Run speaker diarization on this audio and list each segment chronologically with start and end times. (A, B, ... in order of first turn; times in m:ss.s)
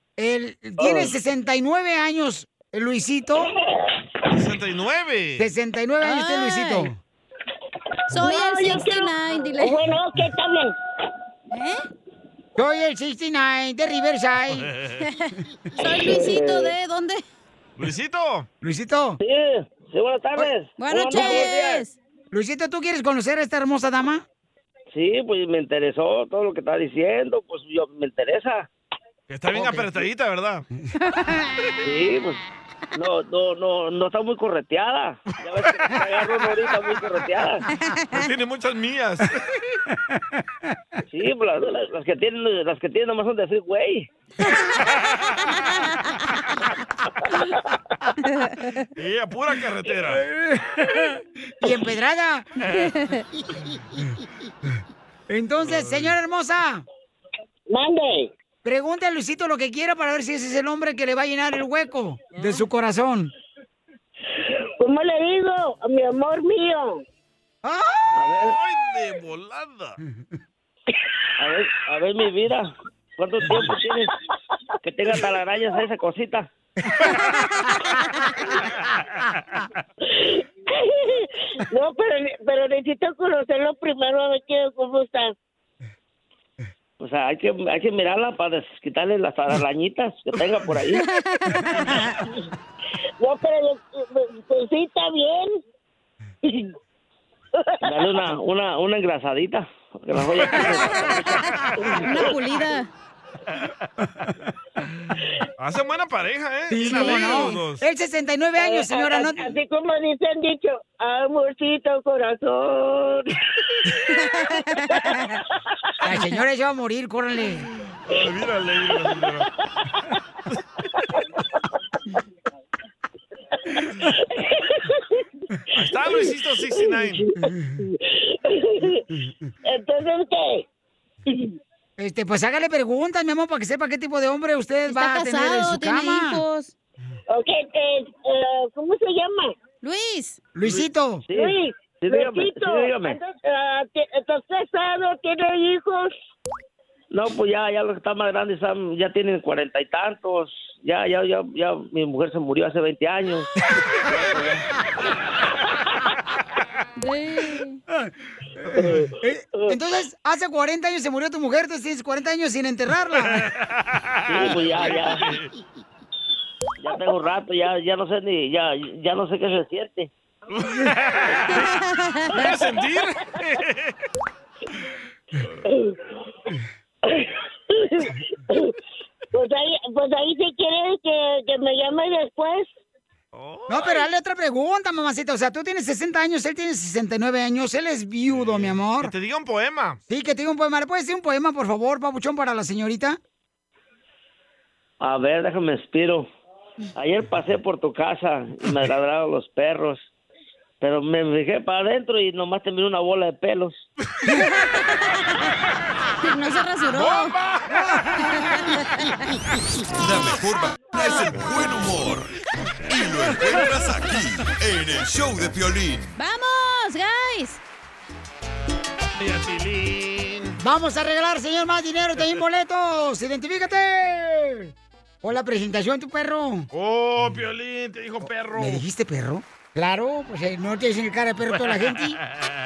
0:00.2-0:03.5 A
0:04.3-0:05.5 B
0:05.4-0:07.0 A
0:06.0-0:06.9 C
0:08.1-0:09.8 C
0:08.1-0:10.7 D
0:11.5-0:11.8 C
0:12.6-0:14.7 A
0:15.0-0:17.2 C
0:16.1-0:16.7 E
0:17.8-0:18.5 B
0:18.6-0:19.2 A
0:19.2-0:21.8 E
0:20.8-0:22.0 C
0:22.3-0:24.2 A
0:24.9-0:28.7 E
0:29.3-0:30.6 B
0:29.5-0:29.9 A
0:31.8-0:32.4 E
0:33.0-0:37.6 E
0:38.1-0:39.4 B
0:41.1-0:44.1 E
0:45.5-0:46.1 C
0:48.4-0:48.8 C
0:49.0-0:50.2 B
0:50.1-0:52.5 A
0:53.0-0:53.2 C
0:53.6-0:54.0 A
0:55.3-0:56.8 A
0:55.6-0:56.1 B
0:57.7-0:58.3 D
0:58.6-1:03.3 A
1:04.8-1:07.0 D
1:07.7-1:08.0 A
1:08.2-1:08.6 E
1:08.3-1:10.0 B
1:11.4-1:14.2 E
1:14.8-1:16.5 E
1:18.7-1:19.3 B
1:20.1-1:25.3 D
1:27.0-1:31.0 E
1:31.1-1:31.6 C
1:33.2-1:35.6 D
1:37.8-1:41.0 E
1:40.7-1:41.1 C
1:41.9-1:42.9 C
1:45.6-1:47.8 B
1:46.7-1:49.6 A
1:46.9-1:47.5 C
1:48.6-1:53.3 D
1:54.4-1:55.3 C
1:56.0-1:57.7 A
1:58.1-1:59.5 B
2:04.3-2:05.0 D
2:05.7-2:07.2 B
2:06.7-2:09.0 D
2:09.6-2:10.7 D
2:11.3-2:11.5 D
2:12.0-2:16.4 A
2:14.9-2:16.8 C
2:17.3-2:19.5 D
2:19.8-2:20.4 C
2:20.6-2:21.2 A
2:21.3-2:23.2 E
2:21.4-2:26.1 D
2:27.1-2:33.5 E
2:34.1-2:34.6 E
2:37.0-2:37.8 C
2:38.7-2:43.5 A
2:38.7-2:39.1 E
2:43.3-2:45.5 B
2:44.3-2:45.3 E
2:46.8-2:50.1 E
2:50.5-2:51.7 B
2:51.9-2:52.5 C
2:52.3-2:54.0 B
2:57.1-2:58.7 D
2:59.3-3:02.7 D
3:03.3-3:04.1 B
3:03.7-3:09.1 A
3:08.3-3:10.0 B
3:10.1-3:13.2 A
3:15.0-3:16.3 E
3:17.0-3:20.1 E
3:20.8-3:23.9 E
3:24.3-3:24.9 C
3:26.2-3:27.4 C
3:26.9-3:27.7 B
3:28.4-3:29.1 C
3:30.0-3:32.3 F
3:32.9-3:36.2 F
3:36.2-3:37.6 C
3:39.2-3:40.6 B
3:40.6-3:46.7 A
3:46.7-3:48.8 B
3:48.2-3:52.2 A